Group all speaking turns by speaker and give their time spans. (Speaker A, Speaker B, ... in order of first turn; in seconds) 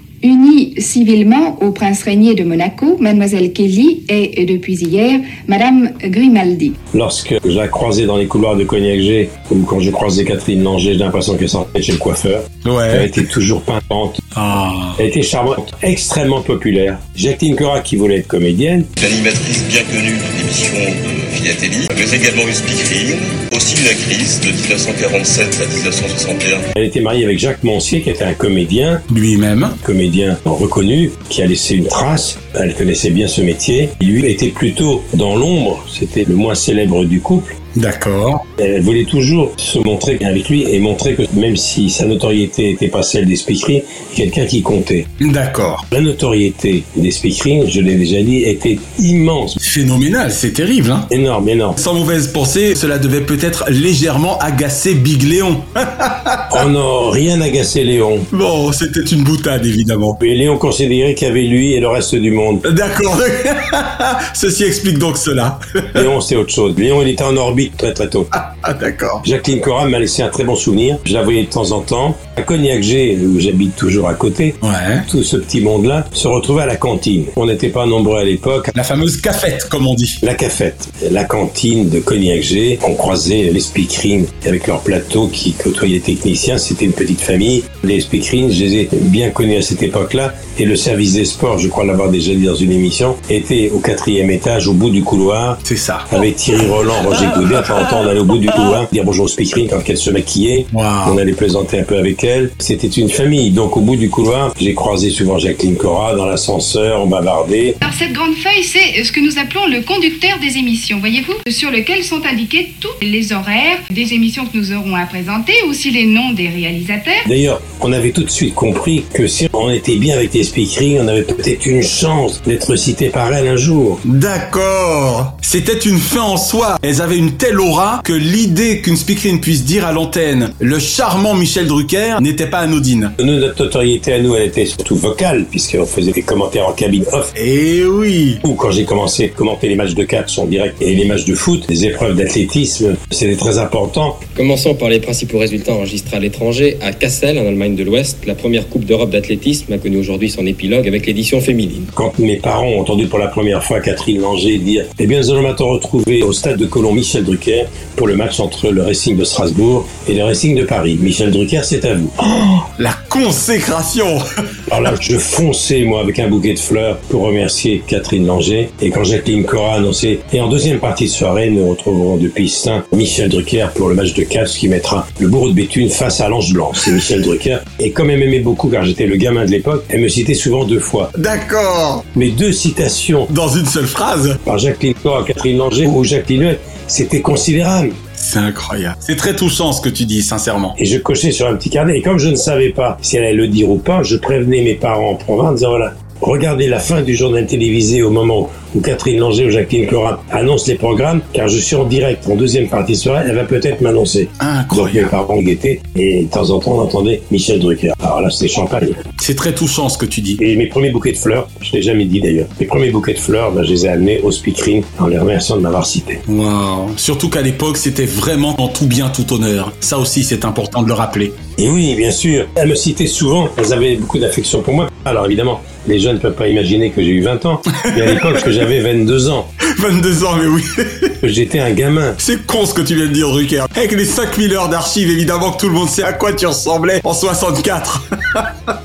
Speaker A: 0.2-6.8, 107.8-117.2
Speaker B: 6.9-14.2, 15.0-18.9, 26.8-29.0, 29.8-37.5, 38.6-45.1, 45.9-49.6, 51.1-51.8, 56.5-58.3, 60.2-62.6, 66.0-68.3, 69.2-78.7, 80.2-95.6, 96.1-107.8, 117.2-124.0, 133.2-137.3, 138.4-144.2, 151.9-162.6, 164.7-181.1, 182.1-183.3, 184.4-187.9, 190.8-209.0, 210.4-216.2, 221.6-229.5, 231.2-232.2
Speaker C: 12.6-13.1, 14.3-15.0, 29.1-29.8, 37.8-38.4, 45.2-45.9, 49.6-51.1, 51.8-56.6, 58.3-60.2, 62.6-66.1, 68.3-69.2, 74.6-75.1, 78.7-80.2, 95.6-96.2, 97.2-97.9, 100.7-101.2, 124.0-133.1, 137.3-138.4, 162.8-164.2, 181.1-182.0, 183.3-184.4, 188.2-190.8, 204.4-205.1, 209.2-210.4, 216.3-221.4, 227.8-228.5, 229.7-231.1, 232.2-238.4
Speaker D: 19.0-26.6
Speaker E: 144.3-151.9